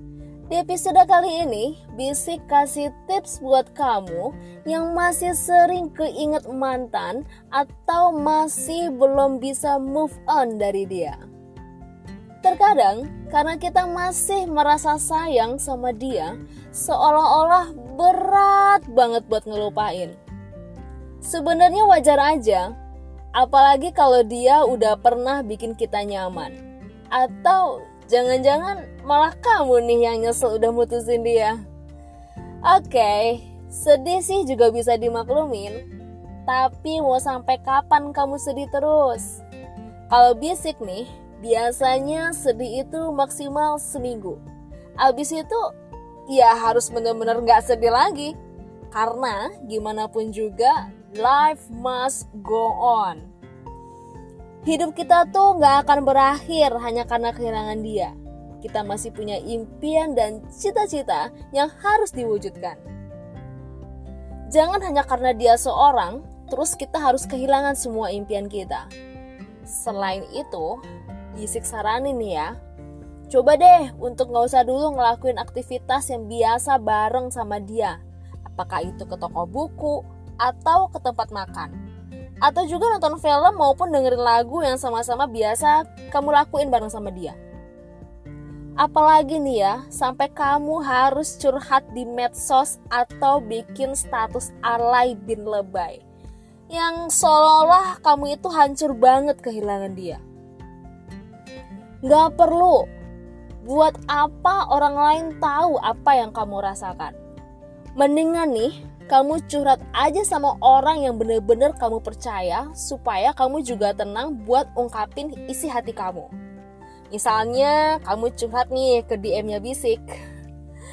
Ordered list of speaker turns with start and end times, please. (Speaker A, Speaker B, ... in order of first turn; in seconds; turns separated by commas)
Speaker A: 0.5-11.2, Speaker A: 12.4-20.2, Speaker A: 21.2-22.7, Speaker A: 23.4-26.6, Speaker A: 27.1-31.6, Speaker A: 32.6-35.8, Speaker A: 36.5-39.4, Speaker A: 40.1-44.4, Speaker A: 45.0-45.6, Speaker A: 46.3-48.3, Speaker A: 48.9-53.2, Speaker A: 54.6-62.8, Speaker A: 64.5-68.9, Speaker A: 69.7-70.8, Speaker A: 71.3-72.5, Speaker A: 73.3-81.7, Speaker A: 82.4-87.4, Speaker A: 88.8-96.0, Speaker A: 96.7-100.2, Speaker A: 102.0-102.8, Speaker A: 103.6-107.1, Speaker A: 108.0-116.3, Speaker A: 117.1-120.1